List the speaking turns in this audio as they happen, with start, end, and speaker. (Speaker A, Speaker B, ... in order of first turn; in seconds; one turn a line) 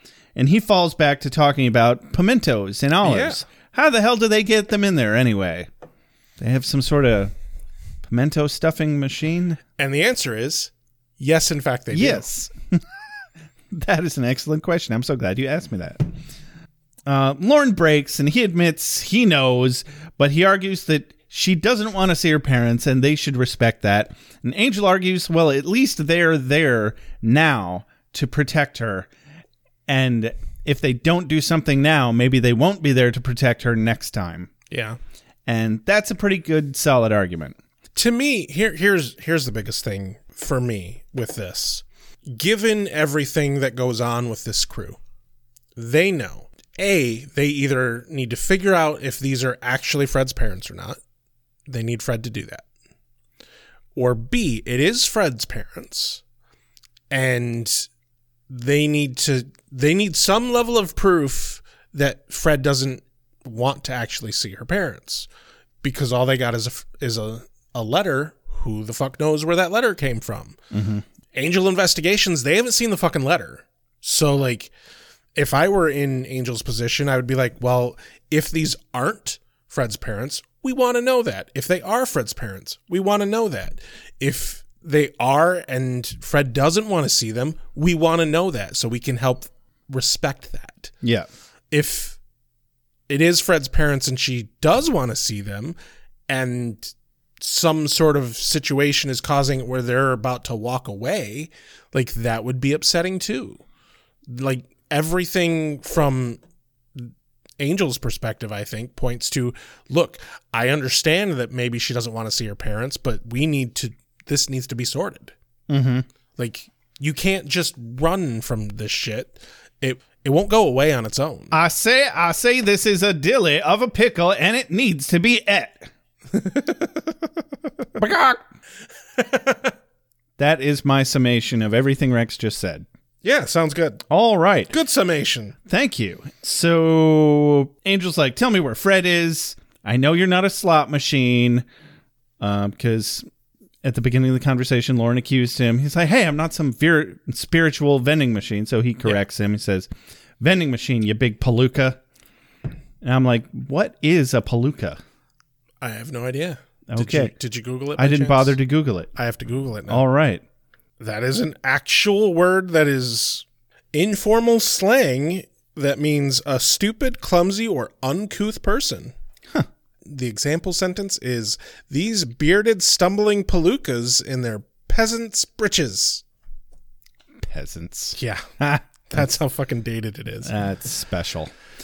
Speaker A: 0.3-5.7
Speaker B: 3.0-3.4
Speaker A: 6.4-7.3
Speaker A: 8.0-9.6
Speaker B: 9.8-12.3
Speaker A: 11.9-12.8
Speaker A: 13.7-16.1
Speaker A: 17.1-29.1
Speaker A: 29.9-34.5
Speaker B: 34.7-35.0
Speaker A: 35.5-37.5
Speaker B: 38.0-45.0
Speaker B: 45.8-51.0
Speaker B: 51.7-52.6
Speaker B: 53.9-56.2
Speaker B: 57.1-57.9
Speaker B: 58.5-65.3
Speaker B: 65.8-70.6
Speaker A: 70.7-71.0
Speaker B: 71.3-74.7
Speaker B: 75.3-90.9
Speaker A: 91.0-91.3
Speaker B: 91.7-92.2
Speaker B: 93.1-95.8
Speaker B: 96.3-103.6
Speaker B: 104.3-106.4
Speaker B: 107.0-115.3
Speaker A: 115.7-116.1
Speaker B: 116.4-121.5
Speaker A: 121.5-125.9
Speaker B: 126.3-127.0
Speaker A: 128.0-128.4
Speaker B: 129.2-129.7
Speaker A: 130.4-132.8
Speaker B: 133.2-134.0
Speaker A: 134.1-134.7
Speaker B: 134.7-135.5
Speaker A: 135.7-141.6
Speaker A: 142.4-143.2
Speaker A: 143.8-149.9
Speaker A: 150.4-152.0
Speaker A: 153.0-155.0
Speaker B: 155.8-158.6
Speaker A: 156.9-157.3
Speaker A: 157.9-159.1
Speaker B: 159.1-160.0
Speaker A: 159.9-160.4
Speaker B: 161.0-169.1
Speaker B: 170.0-176.2
Speaker A: 177.4-179.3
Speaker B: 178.2-178.5
Speaker B: 179.1-180.5
Speaker A: 180.4-181.5